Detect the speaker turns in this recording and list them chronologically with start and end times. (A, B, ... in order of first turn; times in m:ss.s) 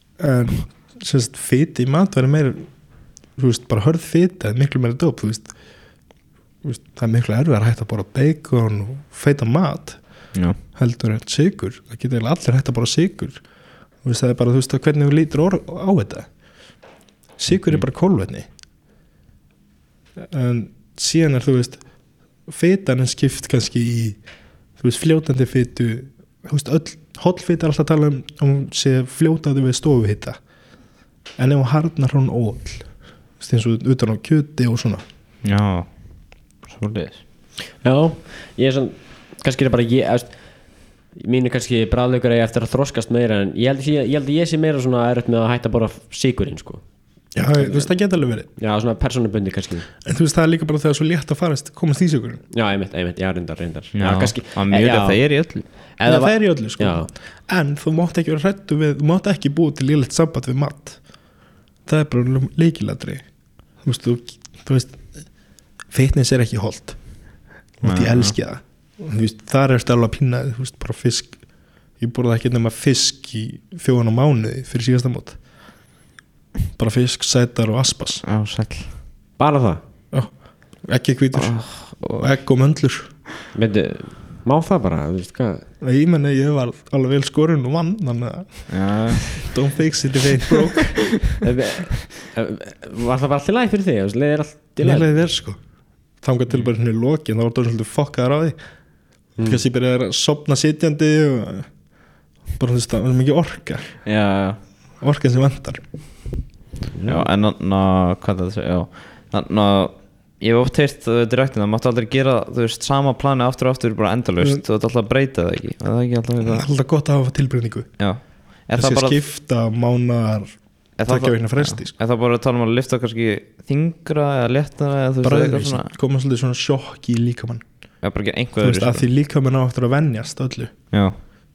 0:00.2-0:18.5 A
0:20.2-0:35.0 A
0:35.4-0:37.2 B
0:37.8-0:49.9 C
0:47.3-0:48.5 A
0:50.0-0:52.4 A
0:52.5-0:57.1 C
0:54.0-0:55.7 B
0:56.0-1:15.6 A
1:07.8-1:08.4 B
1:16.8-1:18.2 A
1:18.2-1:19.0 B
1:19.4-1:19.8 C
1:20.1-1:23.2 A
1:21.3-1:22.3 B
1:23.5-1:25.7 C
1:25.8-1:31.4 A
1:28.7-1:29.5 B
1:31.4-1:35.1 C
1:34.8-1:42.0 A
1:39.4-1:39.6 C
1:42.5-1:44.1 A
1:44.0-1:44.6 B
1:45.0-1:46.5 A
1:46.9-1:47.3 C
1:47.1-1:56.7 B
1:56.5-2:02.0 A
1:58.0-1:59.2 B
2:01.0-2:05.9 B
2:05.2-2:11.3 A
2:08.0-2:09.1 B
2:10.9-2:11.2 B